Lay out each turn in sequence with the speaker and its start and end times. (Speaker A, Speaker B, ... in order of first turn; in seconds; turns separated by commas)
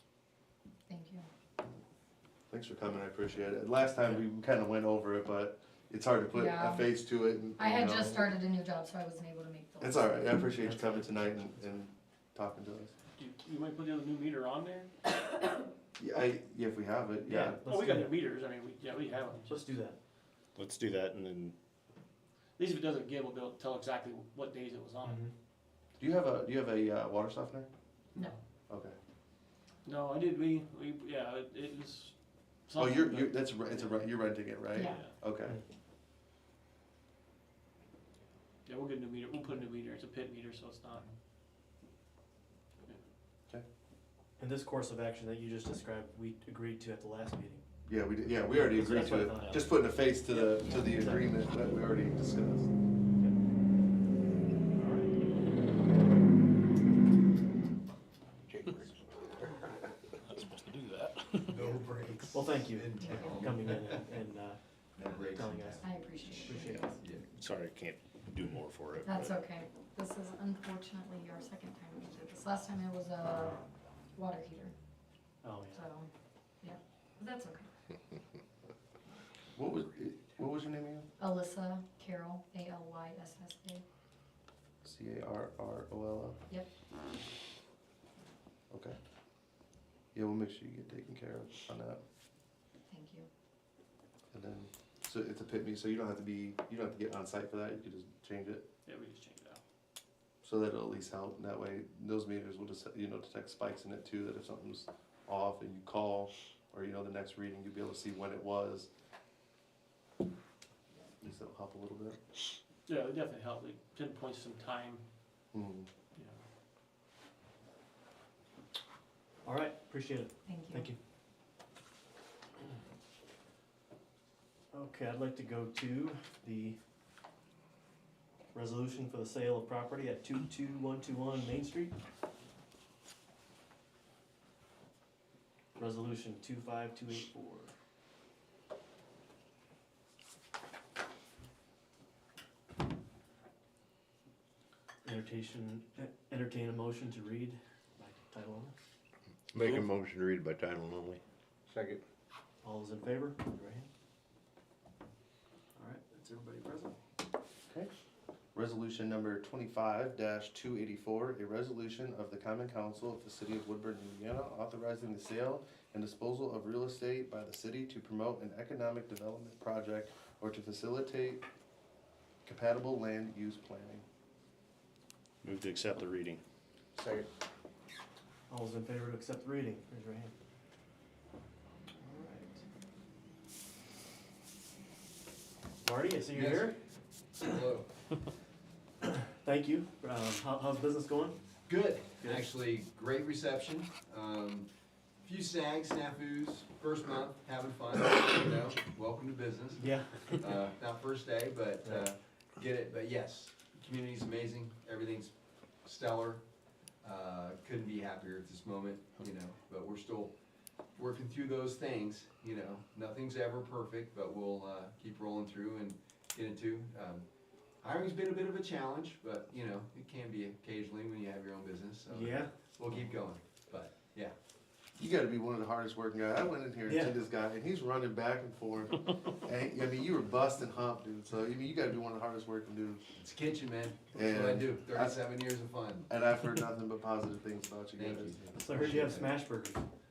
Speaker A: 0.9-1.3, Speaker B: 2.5-8.3, Speaker A: 6.3-6.9, Speaker A: 7.6-10.1, Speaker B: 9.8-12.9, Speaker C: 10.6-11.5, Speaker D: 13.2-14.9, Speaker B: 16.0-17.6, Speaker C: 17.2-18.1, Speaker D: 17.6-19.6, Speaker C: 19.4-20.0, Speaker E: 20.6-21.5, Speaker D: 22.6-25.2, Speaker C: 25.0-25.3, Speaker B: 26.0-27.7, Speaker B: 28.7-29.0, Speaker D: 29.8-32.1, Speaker D: 32.7-34.1, Speaker B: 32.7-35.6, Speaker A: 34.7-35.1, Speaker D: 34.8-35.1, Speaker D: 38.6-41.1, Speaker C: 44.4-47.6, Speaker B: 47.9-52.7, Speaker C: 48.5-49.7, Speaker C: 50.3-51.4, Speaker C: 54.7-55.1, Speaker F: 58.5-58.9, Speaker E: 60.3-61.5, Speaker G: 61.5-64.0, Speaker C: 62.3-64.6, Speaker A: 63.0-63.5, Speaker G: 65.0-65.9, Speaker C: 65.1-65.9, Speaker A: 65.8-67.0, Speaker C: 66.4-66.8, Speaker G: 66.5-67.3, Speaker E: 67.4-69.3, Speaker A: 69.0-74.7, Speaker C: 75.4-75.8, Speaker A: 75.7-76.1, Speaker A: 76.6-77.7, Speaker B: 79.5-81.1, Speaker A: 81.2-83.8, Speaker B: 84.8-86.4, Speaker B: 88.7-89.0, Speaker B: 90.1-92.0, Speaker A: 92.9-93.3, Speaker B: 94.3-98.6, Speaker D: 98.8-99.6, Speaker B: 100.4-108.9, Speaker B: 111.2-112.2, Speaker D: 112.9-115.0, Speaker B: 115.5-115.9, Speaker C: 119.4-121.0, Speaker A: 120.5-120.9, Speaker C: 124.7-126.8, Speaker C: 128.5-131.9, Speaker C: 135.8-137.7, Speaker C: 145.0-148.7, Speaker F: 149.5-152.0, Speaker C: 152.6-153.9, Speaker C: 155.8-156.9, Speaker B: 158.5-171.4, Speaker B: 172.4-174.0, Speaker E: 175.4-176.4, Speaker F: 176.9-177.2, Speaker C: 178.5-180.3, Speaker C: 182.0-182.6, Speaker C: 185.8-186.8, Speaker G: 186.3-186.8, Speaker G: 187.3-187.9, Speaker C: 189.2-191.4, Speaker G: 191.7-194.7, Speaker C: 192.2-192.5, Speaker G: 195.2-205.3, Speaker C: 199.8-200.5, Speaker G: 205.8-206.4, Speaker G: 207.0-210.3, Speaker G: 210.9-217.2, Speaker G: 217.8-224.3, Speaker C: 222.1-222.5, Speaker B: 225.0-233.0, Speaker C: 226.8-227.2, Speaker G: 233.2-236.1, Speaker B: 234.1-235.2, Speaker B: 236.1-238.9, Speaker G: 237.9-239.3, Speaker C: 238.6-239.8